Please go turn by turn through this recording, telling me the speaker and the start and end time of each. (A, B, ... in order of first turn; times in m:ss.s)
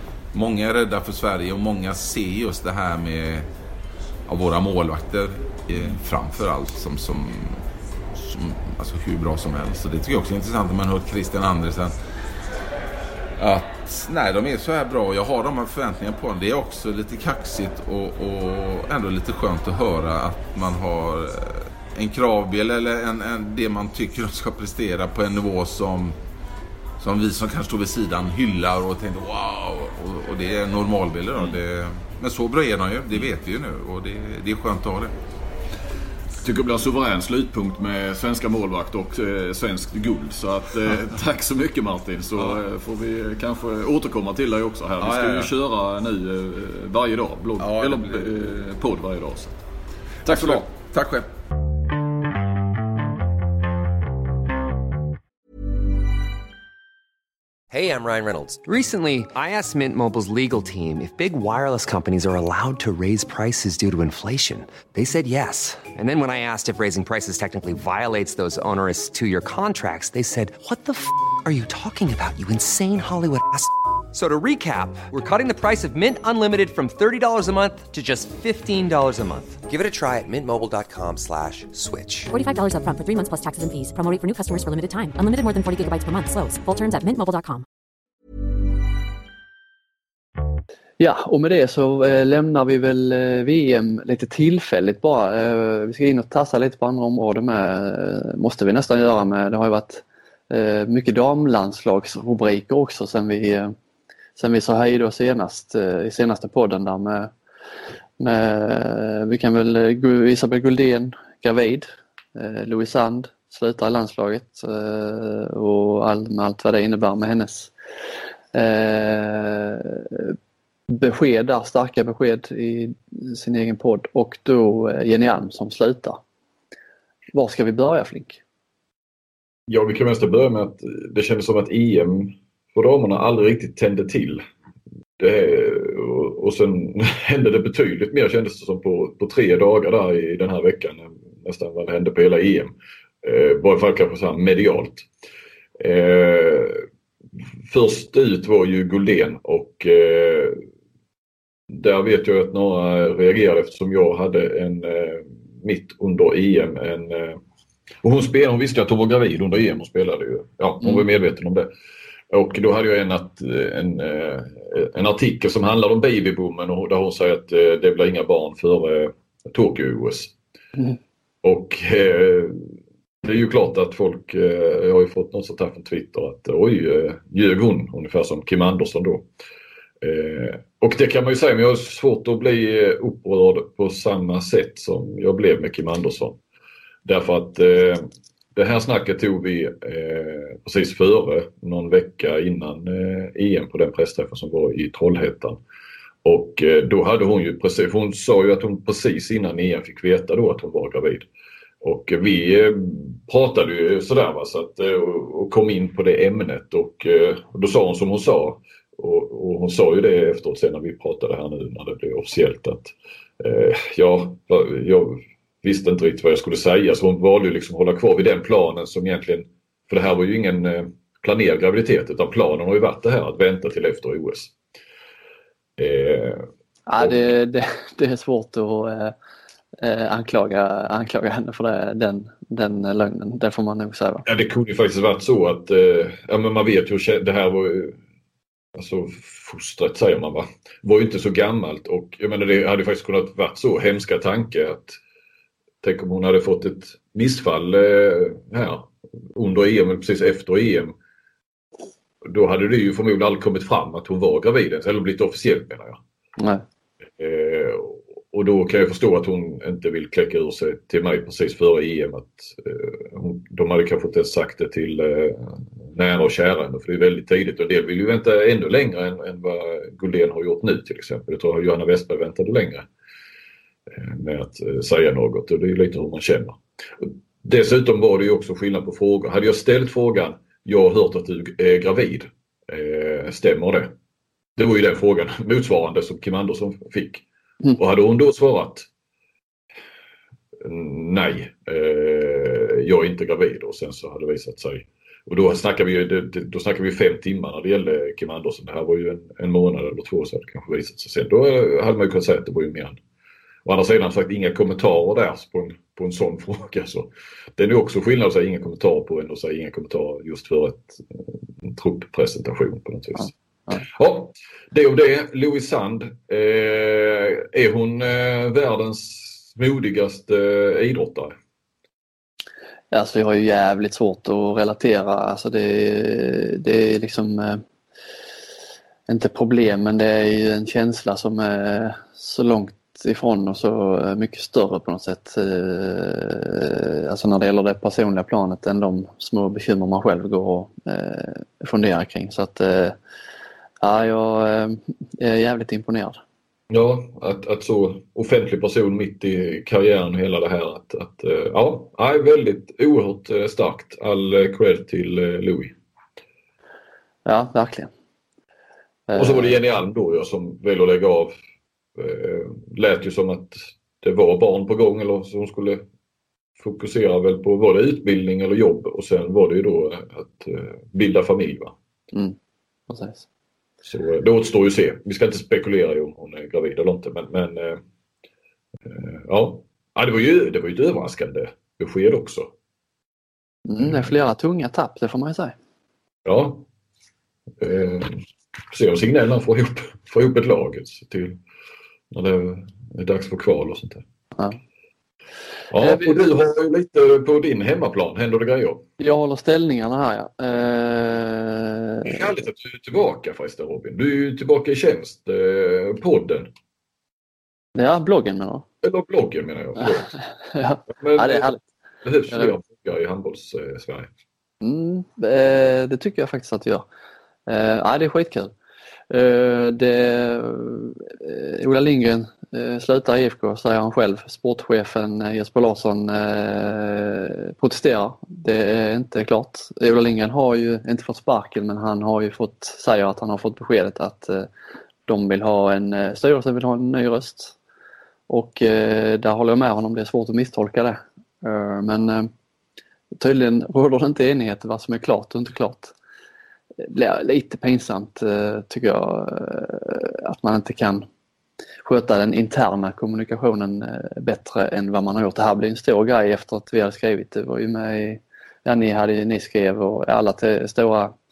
0:00.3-0:03.5 A
0:04.3-0:11.9 A
0:13.4-0:26.2 A
0:27.0-0:35.1 A
0:36.4-0:49.5 B
0:45.0-0:45.5 A
0:47.6-0:48.3 A
0:50.2-0:51.3 A
0:50.2-0:50.7 B
0:57.7-1:22.3 C
1:22.3-1:27.6 D
1:31.0-1:43.7 E
1:44.4-1:47.3 E
1:48.2-1:57.7 E
1:58.5-2:00.4 E
2:00.9-2:06.2 E
2:07.3-2:08.4 E
2:09.7-2:14.4 F
2:15.2-2:25.1 F
2:25.8-2:26.8 F
2:27.7-2:30.6 F
2:31.7-2:37.4 F
2:38.0-2:41.7 F
2:42.3-2:50.3 F
2:51.4-2:52.7 F
2:53.2-2:59.3 F
3:00.0-3:06.4 F
3:07.0-3:15.6 F
3:16.2-3:21.3 F
3:21.8-3:44.5 F
3:45.8-3:46.5 F
3:46.9-3:49.1 E
3:49.8-3:54.2 E
3:54.2-3:58.0 F
3:58.8-4:05.0 F
4:05.8-4:10.9 F
4:12.2-4:16.0 F
4:16.4-4:16.6 E
4:17.2-4:32.9 F
4:33.9-4:43.9 F
4:44.6-4:47.2 F
4:47.8-4:48.9 F
4:50.6-5:03.0 F
5:03.6-5:21.3 F
5:22.9-5:27.6 E
5:29.1-5:43.0 E
5:43.8-5:46.2 E
5:46.7-5:55.7 F
5:57.2-5:57.9 E
5:59.1-5:59.5 E
5:59.1-6:01.3 F
6:02.0-6:05.8 F
6:06.6-6:11.7 F
6:12.9-6:13.3 E
6:13.8-6:17.8 F
6:18.8-6:22.5 F
6:23.7-6:25.5 E
6:23.8-6:24.1 F
6:26.2-6:26.7 F
6:27.6-6:31.4 F
6:32.1-6:34.0 F
6:35.7-6:38.8 F
6:35.8-6:36.4 E
6:39.0-6:42.3 E
6:42.0-6:46.5 F
6:47.7-6:48.6 E
6:48.8-6:50.2 F
6:49.8-6:51.6 E
6:50.9-6:51.5 F
6:52.0-6:54.1 F
6:54.6-6:56.8 E
6:57.5-6:58.5 E
6:59.1-7:14.5 E
7:15.1-7:17.5 E
7:18.3-7:22.3 E
7:23.2-7:25.9 E
7:26.8-7:31.0 E
7:31.8-7:41.1 E